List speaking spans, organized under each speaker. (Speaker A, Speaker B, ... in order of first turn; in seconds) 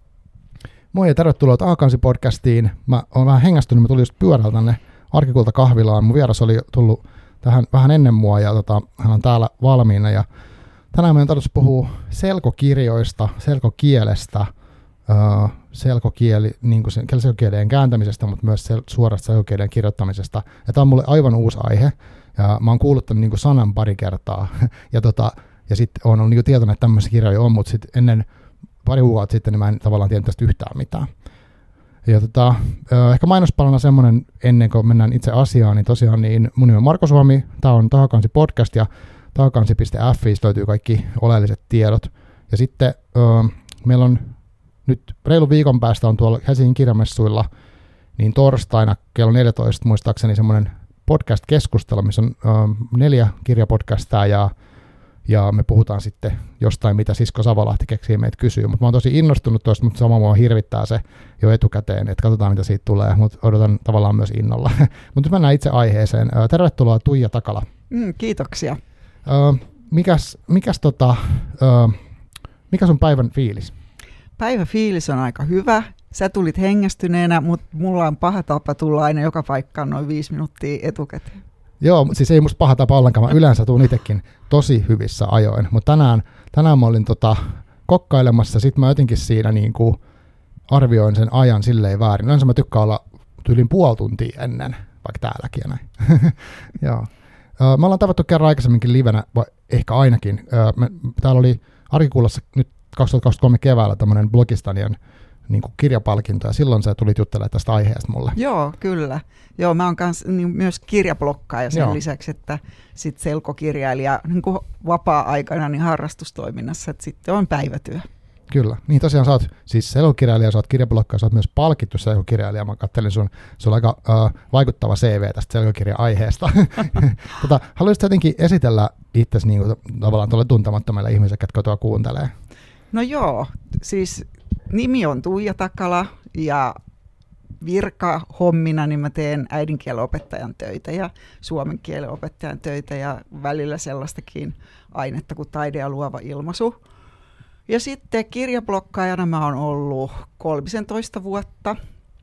Speaker A: 0.9-10.3, 10.9-14.5, 15.1-28.3, 28.8-31.1, 32.0-47.5, 48.1-54.5, 55.2-67.7, 69.2-72.0, 72.7-73.7, 81.8-90.0, 90.7-108.4, 111.7-112.0, 118.5-132.3
Speaker B: 67.9-68.8, 74.4-81.4, 108.3-118.1, 132.9-136.8, 137.6-146.8, 147.7-151.8